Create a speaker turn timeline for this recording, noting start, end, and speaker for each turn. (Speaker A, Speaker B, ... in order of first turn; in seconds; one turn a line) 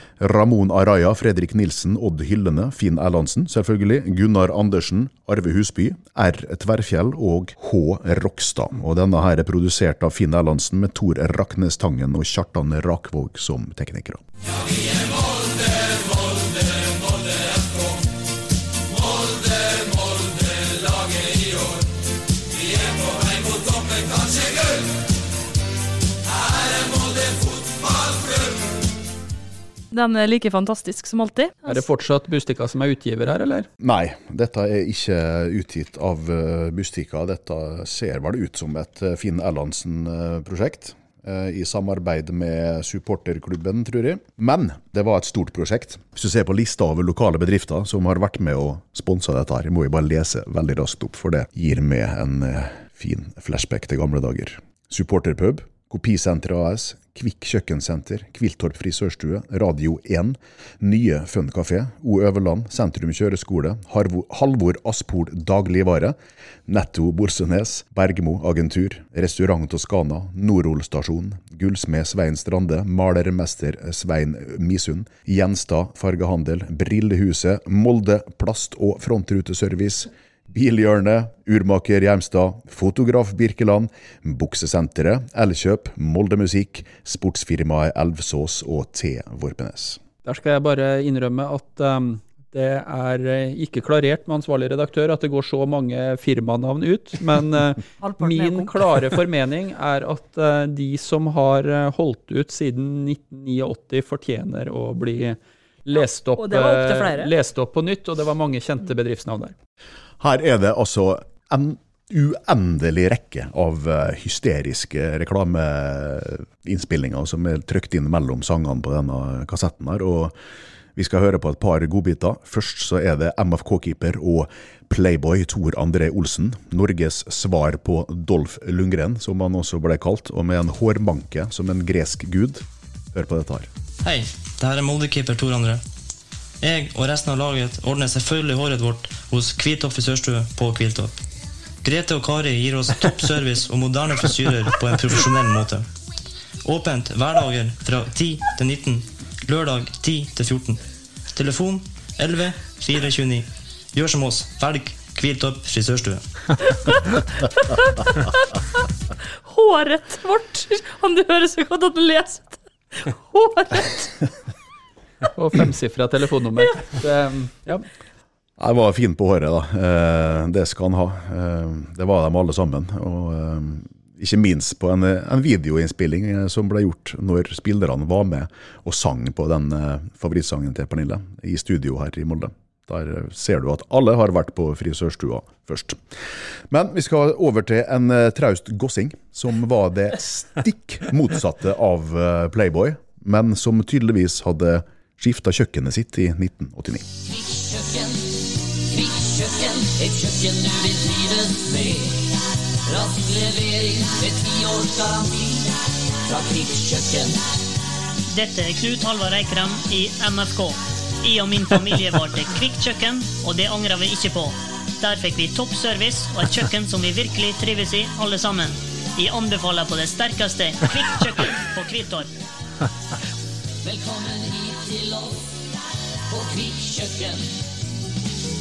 Speaker A: 0.2-14.2
Speaker B: 29.9-31.8
Speaker C: 31.7-33.7
Speaker A: 33.8-66.2
Speaker A: 66.7-90.0
Speaker C: 90.2-109.5
Speaker B: 98.0-98.8
Speaker B: 106.3-107.3
Speaker A: 110.2-120.3
Speaker A: 121.0-133.7
Speaker D: 134.0-135.8
Speaker D: 136.6-141.1
Speaker D: 141.8-145.9
Speaker D: 146.6-150.8
Speaker D: 151.3-156.2
Speaker B: 156.7-158.8
Speaker B: 159.4-164.2
Speaker C: 165.3-167.8
Speaker A: 168.6-186.0
Speaker A: 186.7-197.1
Speaker E: 197.3-198.2
Speaker E: 198.9-202.2
Speaker E: 202.9-205.7
Speaker E: 206.2-207.4
Speaker F: 208.3-222.3
Speaker E: 223.8-225.5
Speaker E: 226.3-227.4